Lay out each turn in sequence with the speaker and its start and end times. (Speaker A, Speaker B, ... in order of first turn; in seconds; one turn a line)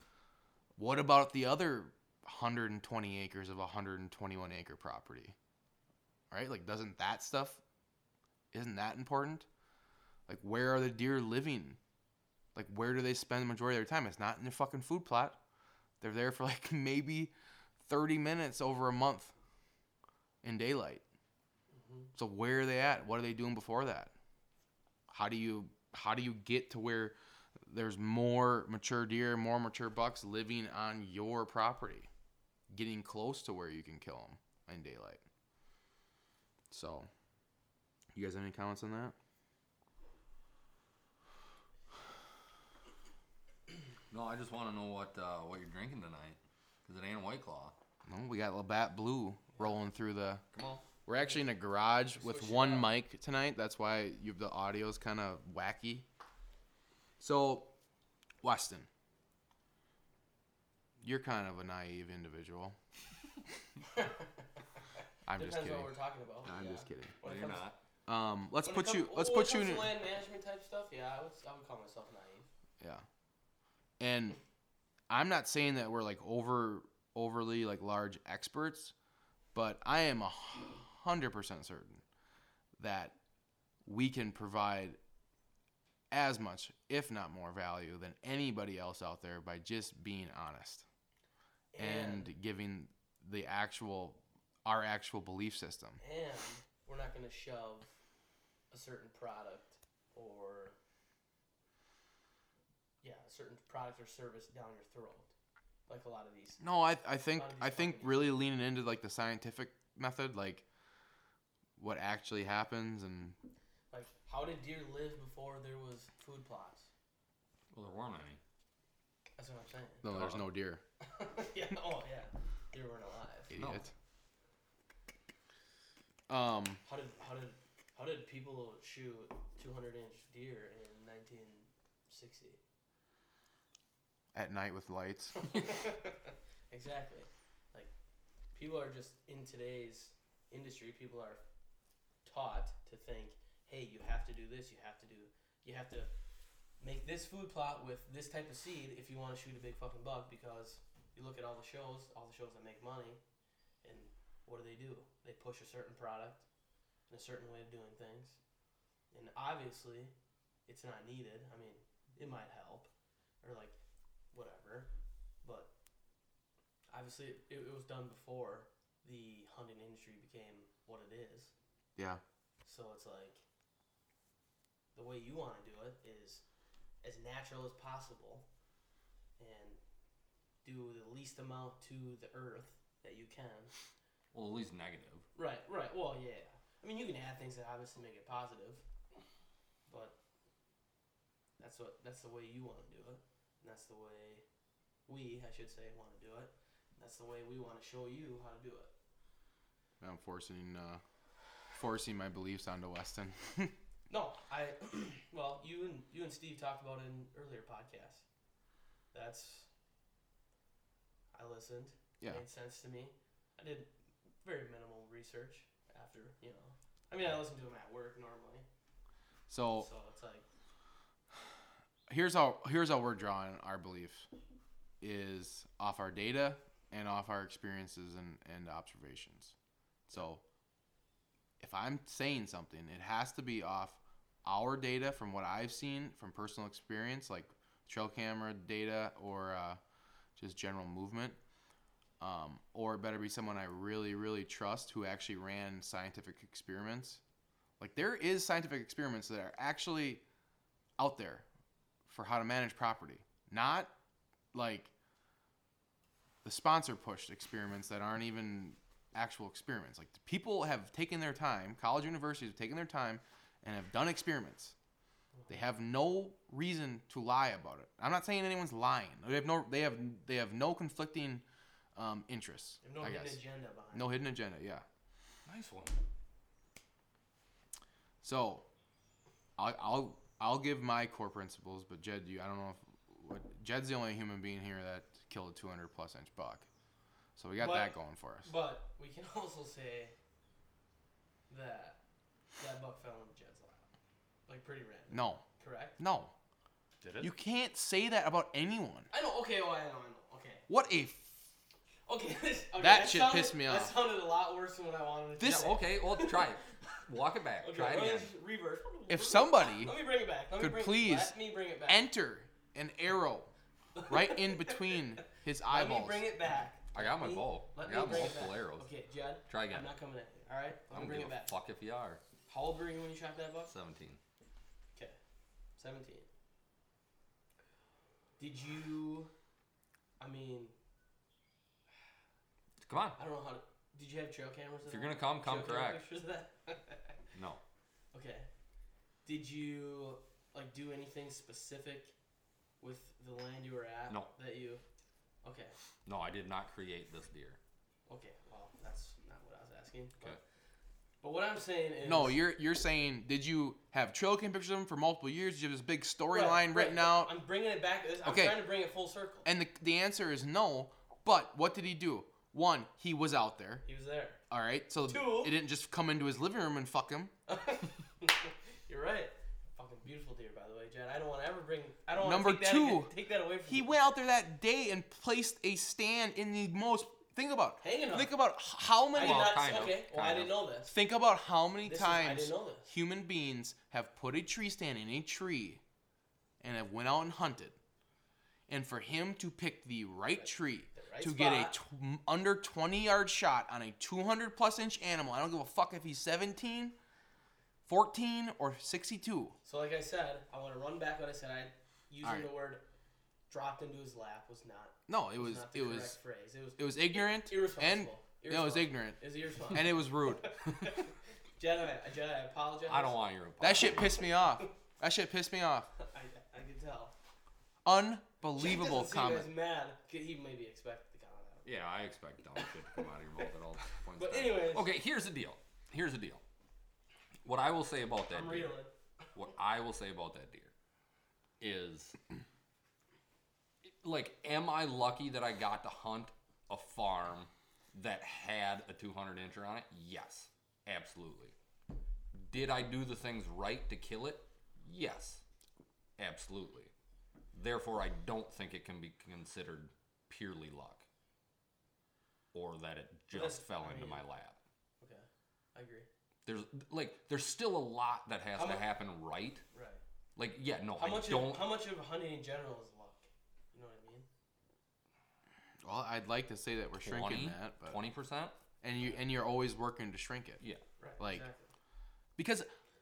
Speaker A: 0.8-5.3
Speaker A: 6.3-7.6
Speaker A: 8.5-9.5
Speaker A: 10.3-11.8
Speaker A: 12.6-15.4
Speaker A: 16.0-17.3
Speaker A: 17.9-19.3
Speaker A: 20.4-21.0
Speaker B: 21.7-22.1
Speaker A: 22.1-24.1
Speaker A: 25.1-32.1
Speaker A: 32.7-35.2
Speaker A: 36.7-37.1
Speaker A: 38.1-39.1
Speaker C: 44.1-47.8
Speaker A: 48.1-50.4
Speaker C: 50.5-50.8
Speaker A: 51.1-56.1
Speaker B: 52.2-52.9
Speaker A: 57.2-57.7
Speaker A: 58.4-58.9
Speaker A: 61.0-62.8
Speaker B: 64.0-64.3
Speaker A: 65.3-67.2
Speaker B: 65.3-67.7
Speaker C: 67.2-67.8
Speaker A: 68.1-69.9
Speaker B: 68.6-72.5
Speaker A: 72.8-73.0
Speaker A: 74.0-74.4
Speaker A: 75.1-78.9
Speaker A: 79.5-82.0
Speaker A: 82.8-83.2
Speaker A: 83.8-85.0
Speaker A: 86.1-90.9
Speaker B: 91.7-92.3
Speaker A: 91.8-96.0
Speaker B: 96.0-97.9
Speaker B: 98.7-100.8
Speaker B: 103.0-105.3
Speaker B: 105.9-106.6
Speaker A: 106.6-110.7
Speaker B: 107.3-108.4
Speaker A: 111.8-113.4
Speaker B: 113.9-116.9
Speaker C: 117.7-118.4
Speaker B: 119.4-120.1
Speaker A: 120.0-120.8
Speaker C: 120.1-120.4
Speaker B: 121.0-123.5
Speaker A: 123.5-123.9
Speaker C: 123.5-123.8
Speaker A: 126.3-126.8
Speaker B: 126.8-132.6
Speaker A: 134.3-135.5
Speaker B: 135.4-137.9
Speaker B: 138.5-141.4
Speaker B: 142.2-146.1
Speaker B: 146.8-153.2
Speaker B: 153.8-156.4
Speaker B: 157.1-158.4
Speaker B: 159.1-160.1
Speaker B: 160.7-162.9
Speaker B: 163.4-163.8
Speaker B: 164.3-164.9
Speaker B: 165.4-165.7
Speaker B: 166.9-171.5
Speaker A: 172.0-172.2
Speaker B: 172.6-173.4
Speaker B: 174.9-176.4
Speaker B: 177.0-178.5
Speaker B: 179.4-179.8
Speaker B: 180.6-183.7
Speaker C: 184.3-185.3
Speaker B: 185.3-188.8
Speaker B: 189.9-190.2
Speaker B: 191.6-194.4
Speaker B: 195.1-198.9
Speaker A: 200.0-201.0
Speaker A: 201.7-203.7
Speaker B: 204.1-208.2
Speaker B: 209.1-209.7
Speaker B: 211.3-213.9
Speaker B: 214.4-218.7
Speaker A: 219.5-219.9
Speaker B: 219.8-220.5
Speaker A: 222.1-224.3
Speaker A: 225.0-229.6
Speaker A: 230.1-230.4
Speaker A: 231.6-239.8
Speaker A: 240.4-241.4
Speaker A: 242.2-247.2
Speaker A: 247.8-250.2
Speaker A: 251.0-251.5
Speaker A: 252.1-253.9
Speaker A: 254.5-254.9
Speaker A: 256.4-264.8
Speaker A: 265.5-271.4
Speaker A: 271.9-273.4
Speaker B: 272.8-274.2
Speaker A: 273.9-274.9
Speaker C: 275.5-276.0
Speaker A: 278.2-278.7
Speaker A: 279.6-286.7
Speaker A: 287.4-288.5
Speaker B: 287.6-290.1
Speaker B: 291.5-292.0
Speaker B: 292.6-293.9
Speaker B: 294.5-296.0
Speaker A: 295.1-295.4
Speaker A: 296.0-296.3
Speaker C: 297.0-297.3
Speaker A: 297.2-299.1
Speaker B: 299.1-300.7
Speaker A: 300.7-301.5
Speaker B: 302.1-306.6
Speaker A: 302.8-303.9
Speaker A: 305.4-305.7
Speaker C: 305.4-308.3
Speaker B: 307.6-312.1
Speaker A: 309.1-310.0
Speaker A: 310.6-311.4
Speaker A: 311.9-313.5
Speaker B: 313.9-321.5
Speaker A: 314.1-316.3
Speaker C: 316.9-318.9
Speaker C: 319.5-319.9
Speaker C: 320.9-322.2
Speaker B: 322.5-323.7
Speaker C: 323.7-324.2
Speaker B: 325.8-326.3
Speaker B: 328.4-329.3
Speaker B: 330.2-330.8
Speaker C: 332.8-333.2
Speaker B: 333.2-337.2
Speaker C: 334.9-336.0
Speaker C: 337.3-337.6
Speaker B: 338.1-338.5
Speaker B: 339.2-342.1
Speaker B: 342.8-344.8
Speaker B: 345.4-345.8
Speaker C: 346.1-347.6
Speaker B: 348.1-350.4
Speaker B: 351.2-352.4
Speaker A: 352.0-357.3
Speaker B: 356.3-359.5
Speaker A: 358.2-358.7
Speaker A: 359.4-363.8
Speaker B: 363.9-364.4
Speaker A: 364.5-367.3
Speaker B: 365.0-365.6
Speaker B: 367.5-374.0
Speaker A: 372.2-373.1
Speaker A: 373.6-379.6
Speaker B: 377.8-378.3
Speaker B: 379.1-381.0
Speaker C: 379.2-380.6
Speaker A: 380.9-385.8
Speaker B: 381.8-382.9
Speaker A: 386.6-387.8
Speaker A: 388.7-397.0
Speaker B: 390.4-391.8
Speaker A: 397.9-399.6
Speaker B: 399.6-402.8
Speaker A: 402.2-402.5
Speaker B: 403.5-413.2
Speaker A: 405.1-406.2
Speaker A: 406.8-410.6
Speaker C: 412.9-414.3
Speaker A: 413.6-415.9
Speaker B: 416.0-417.1
Speaker A: 417.9-419.5
Speaker B: 418.6-421.7
Speaker C: 421.6-426.4
Speaker B: 422.6-423.0
Speaker B: 424.2-424.9
Speaker C: 427.4-428.8
Speaker B: 428.3-428.9
Speaker C: 429.3-430.7
Speaker C: 431.6-432.2
Speaker C: 433.8-441.6
Speaker C: 442.5-445.4
Speaker C: 446.2-446.9
Speaker C: 447.5-451.1
Speaker C: 452.5-454.6
Speaker B: 453.3-454.2
Speaker B: 455.0-456.1
Speaker C: 456.5-459.6
Speaker B: 458.6-458.9
Speaker B: 459.7-460.0
Speaker C: 460.4-461.7
Speaker B: 461.0-464.3
Speaker A: 465.8-468.0
Speaker C: 467.0-468.6
Speaker A: 468.8-470.6
Speaker B: 469.0-469.2
Speaker B: 471.0-471.7
Speaker A: 471.2-471.5
Speaker A: 472.4-472.7